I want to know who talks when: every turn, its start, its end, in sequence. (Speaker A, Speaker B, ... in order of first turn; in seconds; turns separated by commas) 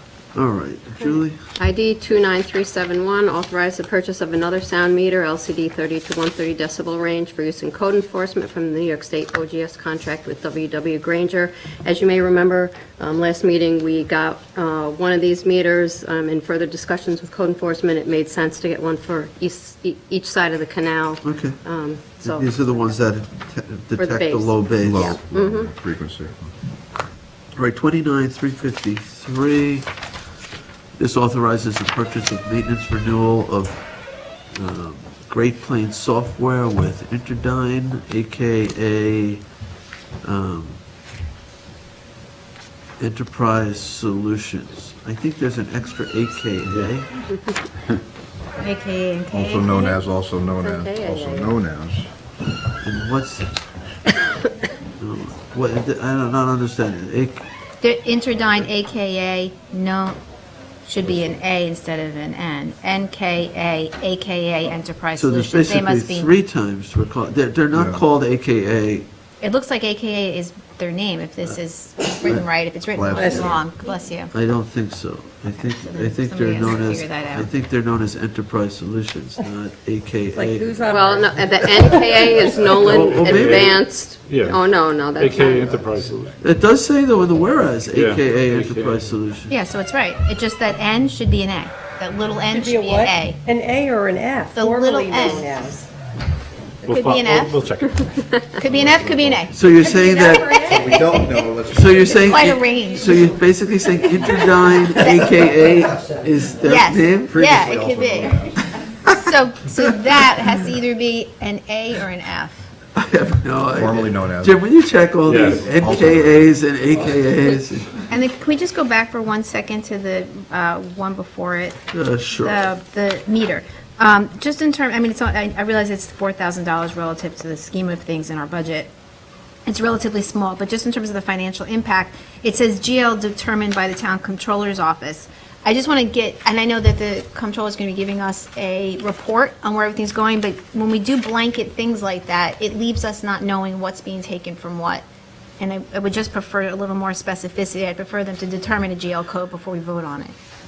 Speaker A: 0.3-1.4, Speaker B: 1.6-22.8, Speaker A: 21.2-21.6, Speaker A: 22.2-25.2, Speaker B: 23.9-25.7, Speaker C: 24.8-26.5, Speaker A: 27.5-29.9, Speaker A: 31.0-33.9, Speaker A: 34.5-39.5, Speaker A: 40.2-40.8, Speaker A: 43.0-47.1, Speaker D: 48.6-49.7, Speaker C: 49.3-52.1, Speaker B: 50.6-51.6, Speaker A: 52.8-53.5, Speaker A: 55.0-57.5, Speaker D: 57.8-60.2, Speaker D: 60.8-66.3, Speaker A: 65.1-69.1, Speaker C: 67.7-68.0, Speaker D: 69.4-74.3, Speaker C: 72.9-73.6, Speaker E: 73.2-73.5, Speaker A: 74.3-81.0, Speaker D: 75.6-77.5, Speaker E: 80.3-82.6, Speaker B: 80.9-85.8, Speaker F: 82.7-84.6, Speaker A: 82.7-83.8, Speaker F: 85.2-86.3, Speaker C: 85.5-86.4, Speaker A: 86.4-89.5, Speaker F: 87.9-89.2, Speaker D: 89.5-93.4, Speaker E: 92.5-95.8, Speaker D: 94.5-95.9, Speaker B: 95.2-95.5, Speaker F: 96.8-99.2, Speaker D: 96.9-97.6, Speaker D: 98.5-103.3, Speaker A: 99.5-100.7, Speaker E: 100.1-100.9, Speaker C: 100.5-102.5, Speaker A: 101.7-107.4, Speaker D: 104.0-105.4, Speaker D: 106.6-108.4, Speaker C: 107.2-108.7, Speaker D: 109.1-112.6, Speaker A: 113.0-117.9, Speaker C: 113.7-114.6, Speaker F: 115.3-115.6, Speaker C: 115.6-116.5, Speaker D: 118.1-128.9, Speaker A: 121.9-122.7, Speaker D: 129.7-145.0, Speaker D: 145.6-150.3